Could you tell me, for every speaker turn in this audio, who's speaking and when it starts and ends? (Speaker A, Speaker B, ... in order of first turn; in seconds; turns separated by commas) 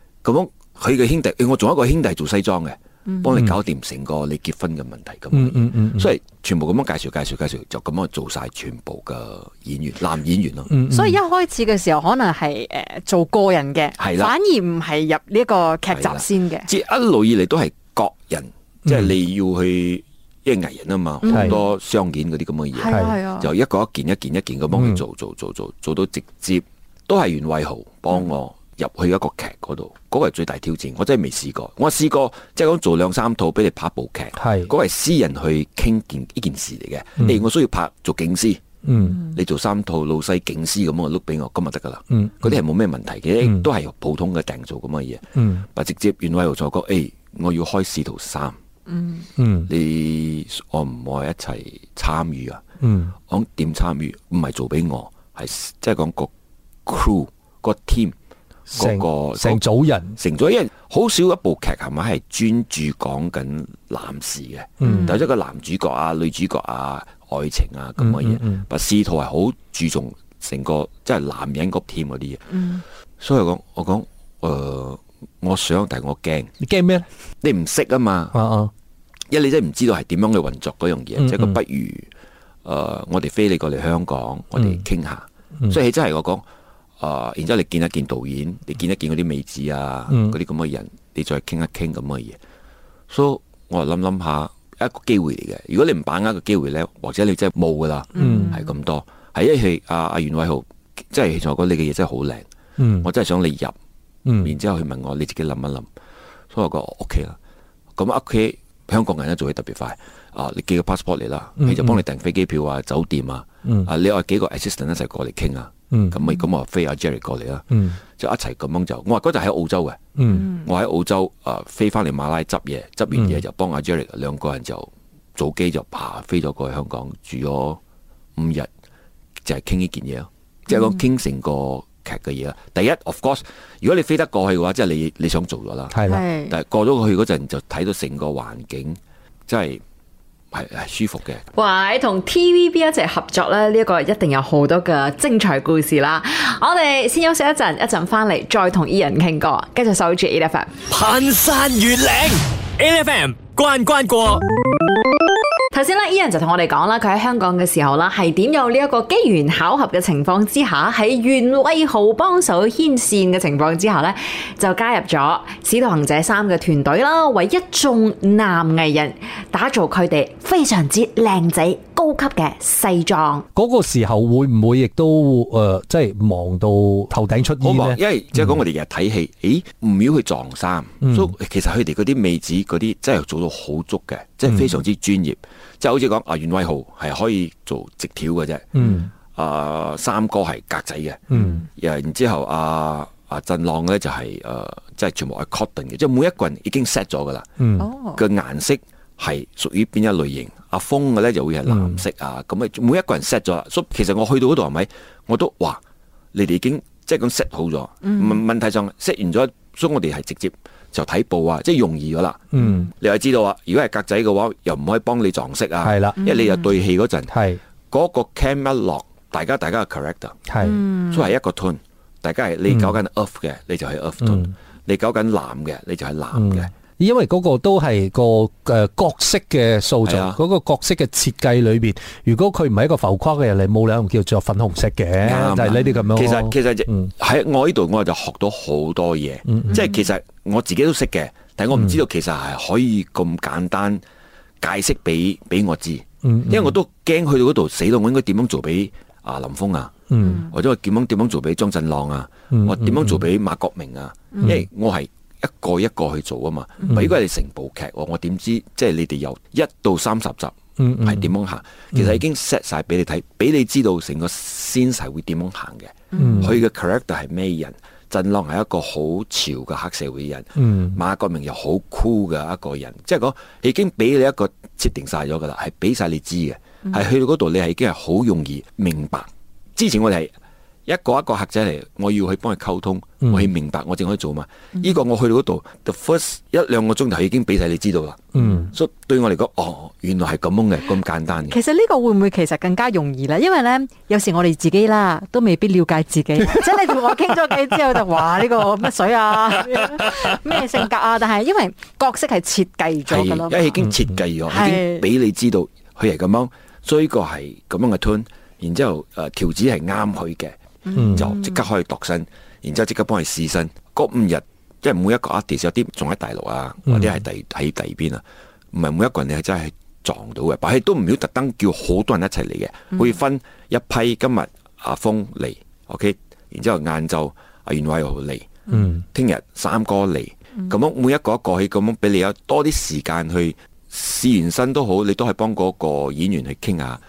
Speaker A: 0.2-10.7, Speaker B: 3.1-3.3, Speaker C: 5.3-6.1, Speaker C: 10.7-11.2, Speaker B: 10.9-16.7, Speaker A: 14.0-14.3, Speaker A: 15.9-38.6, Speaker C: 18.9-19.1, Speaker B: 21.2-21.6, Speaker C: 21.3-21.6, Speaker B: 22.8-23.5, Speaker C: 22.9-23.2, Speaker C: 24.7-25.0, Speaker C: 34.4-34.7, Speaker C: 37.2-37.5, Speaker C: 38.8-39.3, Speaker A: 39.1-48.6, Speaker C: 42.1-42.6, Speaker C: 43.4-43.7, Speaker C: 45.4-45.7, Speaker B: 48.9-49.3, Speaker C: 49.4-49.7, Speaker A: 49.7-52.6, Speaker C: 52.8-53.1, Speaker A: 53.3-56.3, Speaker A: 56.9-58.1, Speaker C: 58.7-60.2, Speaker A: 58.7-72.5, Speaker C: 64.8-65.2, Speaker B: 64.8-65.2, Speaker C: 68.0-68.6, Speaker B: 72.5-72.8, Speaker A: 73.2-76.5, Speaker C: 76.6-77.1, Speaker A: 77.4-78.4, Speaker C: 78.3-78.7, Speaker A: 79.3-82.1, Speaker C: 81.2-81.6, Speaker A: 82.7-86.4, Speaker C: 84.6-84.8, Speaker A: 87.0-92.4, Speaker C: 90.1-90.3, Speaker A: 93.1-102.5, Speaker B: 98.2-98.6, Speaker C: 98.2-98.6, Speaker C: 102.8-103.1, Speaker A: 103.0-103.8, Speaker C: 104.3-104.5, Speaker A: 104.4-105.9, Speaker A: 106.5-107.4, Speaker A: 108.0-127.8, Speaker C: 111.6-112.0, Speaker C: 113.7-113.9, Speaker C: 115.9-116.2, Speaker C: 117.7-118.0, Speaker C: 120.2-120.5, Speaker C: 123.2-123.4, Speaker A: 128.4-128.7, Speaker A: 129.4-139.8, Speaker C: 135.9-136.2, Speaker B: 136.1-136.6, Speaker A: 140.5-141.4, Speaker D: 141.6-150.8, Speaker E: 150.9-154.4, Speaker D: 155.7-173.4, Speaker C: 173.6-178.6, Speaker A: 177.6-188.7, Speaker C: 181.0-181.3, Speaker C: 184.5-184.8, Speaker C: 188.8-189.1, Speaker A: 189.3-191.2, Speaker C: 191.3-191.6, Speaker B: 191.3-191.7, Speaker A: 191.8-197.5, Speaker C: 197.6-197.9, Speaker B: 197.8-198.2, Speaker A: 198.2-205.8, Speaker C: 201.7-202.0, Speaker A: 206.3-217.3, Speaker B: 208.0-208.4, Speaker C: 212.5-212.9, Speaker B: 212.6-212.9, Speaker C: 215.8-216.2, Speaker B: 216.2-216.7, Speaker C: 217.3-217.6, Speaker A: 217.9-226.7, Speaker C: 220.5-220.8, Speaker B: 220.6-221.3, Speaker C: 222.7-223.0, Speaker C: 224.2-224.5, Speaker C: 226.3-237.1, Speaker A: 230.0-230.4, Speaker A: 235.2-244.0, Speaker C: 239.5-240.0, Speaker C: 241.7-242.0, Speaker A: 244.6-280.3, Speaker C: 246.2-246.8, Speaker C: 250.1-250.5, Speaker B: 250.2-250.5, Speaker C: 252.5-253.2, Speaker C: 256.9-257.2, Speaker C: 260.8-261.3, Speaker C: 261.9-262.2, Speaker B: 266.2-266.5, Speaker C: 266.2-266.6, Speaker C: 270.6-271.0, Speaker A: 280.9-291.6, Speaker C: 283.2-283.5, Speaker C: 288.4-288.7, Speaker B: 288.4-288.7, Speaker B: 291.5-303.8, Speaker A: 303.1-328.5, Speaker B: 304.5-305.1, Speaker B: 310.9-311.6, Speaker C: 310.9-311.3, Speaker C: 316.9-317.2, Speaker C: 328.7-329.1, Speaker A: 329.1-337.0